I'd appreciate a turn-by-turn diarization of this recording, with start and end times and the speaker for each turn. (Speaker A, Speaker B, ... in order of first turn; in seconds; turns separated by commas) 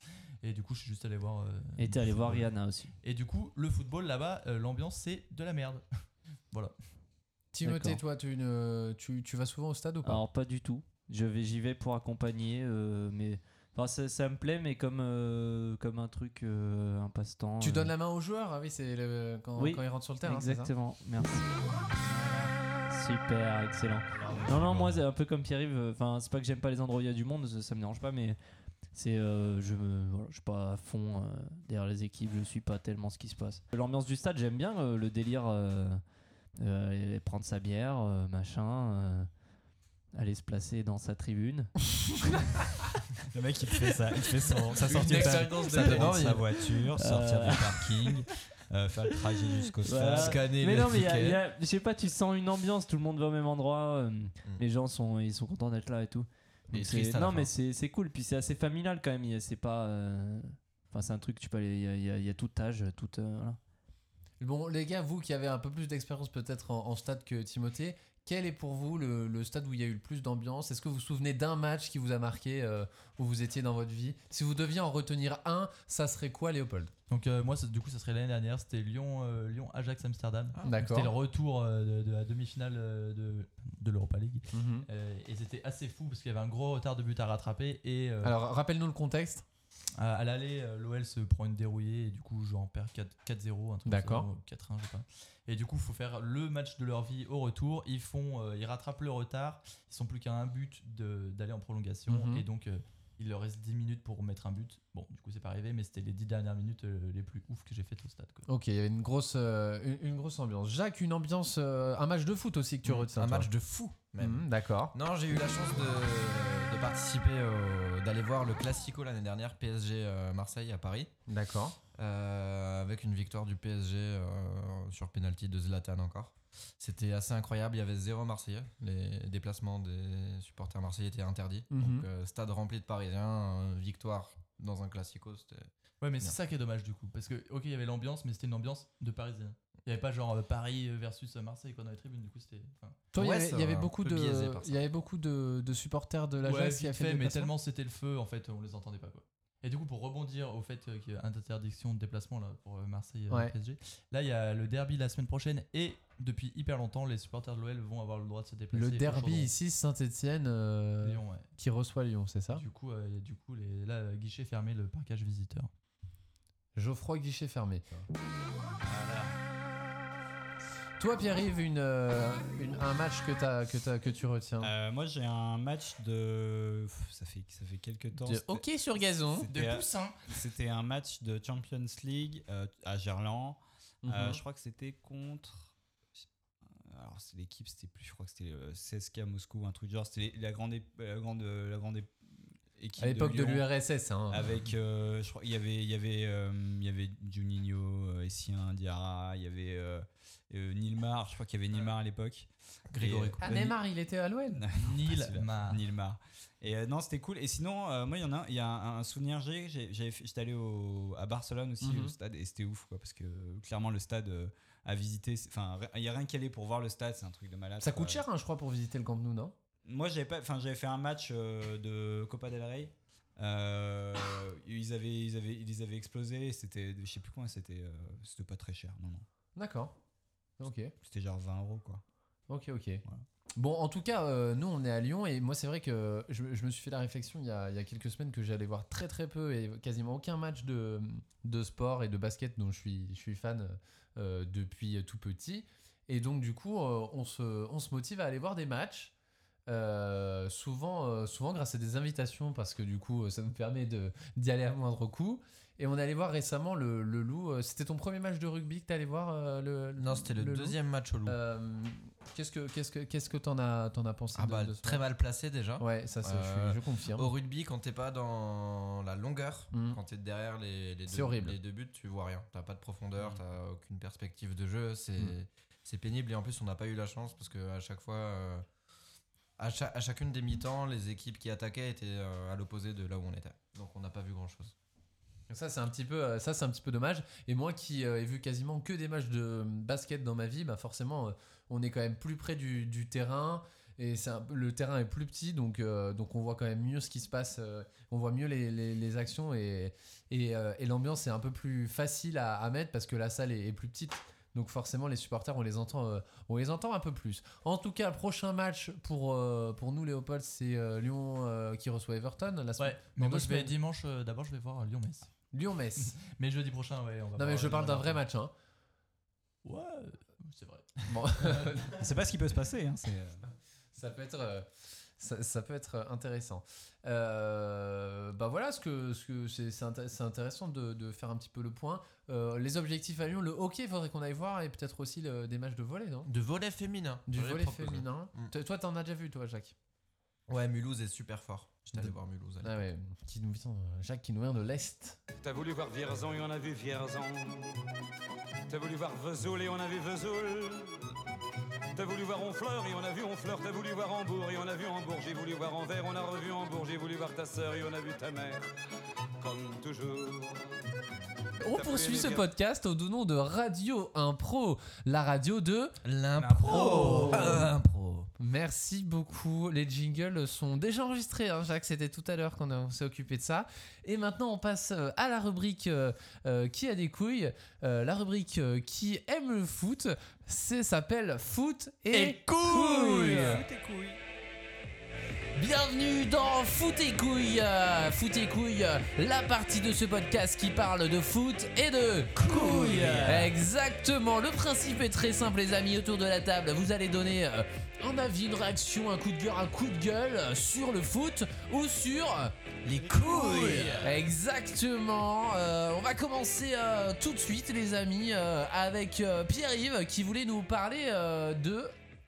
Speaker A: 0.4-2.5, Speaker B: 1.8-2.9, Speaker A: 3.0-5.8, Speaker C: 7.5-10.2, Speaker B: 7.6-8.0, Speaker B: 10.0-17.9, Speaker C: 17.6-20.7, Speaker B: 19.6-21.5, Speaker D: 22.0-22.5, Speaker B: 22.9-28.4, Speaker D: 24.1-25.0, Speaker B: 28.9-36.0, Speaker B: 36.6-39.3, Speaker B: 40.1-41.7, Speaker D: 43.3-50.4, Speaker C: 45.0-46.5, Speaker B: 46.9-48.1, Speaker B: 49.8-63.6, Speaker E: 50.1-51.4, Speaker E: 56.7-57.5, Speaker C: 64.4-76.9, Speaker A: 77.1-88.3, Speaker C: 80.6-81.1, Speaker C: 84.5-84.9, Speaker C: 88.2-89.4, Speaker A: 90.0-108.5, Speaker C: 93.9-94.3, Speaker C: 102.1-102.4, Speaker C: 108.5-113.5, Speaker E: 112.8-121.1, Speaker C: 114.2-114.9, Speaker C: 121.3-121.8, Speaker E: 122.0-135.7, Speaker C: 131.7-132.1, Speaker A: 136.0-143.0, Speaker E: 143.1-144.8, Speaker C: 143.1-147.5, Speaker A: 146.4-159.5, Speaker C: 158.7-162.6, Speaker A: 161.0-161.5, Speaker A: 162.5-165.7, Speaker C: 166.8-167.8, Speaker D: 168.8-169.4, Speaker C: 171.0-174.7, Speaker D: 174.6-178.6, Speaker C: 178.2-179.5, Speaker D: 179.3-193.7, Speaker A: 179.5-180.3, Speaker C: 184.0-184.4, Speaker C: 193.0-194.5, Speaker D: 194.3-203.7, Speaker E: 202.9-203.6, Speaker C: 203.4-204.6, Speaker D: 204.6-218.2, Speaker A: 204.8-205.8, Speaker C: 211.8-212.1, Speaker C: 217.8-219.5, Speaker D: 219.8-229.2, Speaker C: 229.6-229.9, Speaker C: 230.6-230.9, Speaker D: 231.0-232.0, Speaker C: 232.5-233.0, Speaker C: 233.6-249.1, Speaker C: 249.7-265.0, Speaker E: 260.0-261.4, Speaker E: 264.3-278.6, Speaker C: 265.8-267.3, Speaker C: 269.7-270.0, Speaker C: 271.1-271.6, Speaker E: 279.6-284.7, Speaker C: 285.5-313.7, Speaker A: 312.8-315.3, Speaker C: 315.5-316.1, Speaker A: 316.0-318.2, Speaker C: 317.4-318.5, Speaker A: 319.6-321.7, Speaker C: 321.1-321.9, Speaker D: 322.0-323.4, Speaker C: 323.9-324.7, Speaker C: 325.2-336.3, Speaker E: 336.2-338.5, Speaker C: 337.3-339.7, Speaker E: 340.5-342.7, Speaker C: 341.9-345.2, Speaker F: 345.4-347.8, Speaker F: 348.7-351.0, Speaker F: 351.9-358.6, Speaker F: 359.4-360.8, Speaker C: 361.6-366.0, Speaker F: 361.7-362.5, Speaker E: 366.0-368.3, Speaker A: 366.6-367.4, Speaker D: 366.8-367.1, Speaker C: 368.4-383.6, Speaker D: 382.7-384.2, Speaker C: 385.6-411.9, Speaker B: 392.5-393.5, Speaker D: 392.5-393.5, Speaker D: 402.9-404.2, Speaker E: 403.0-404.1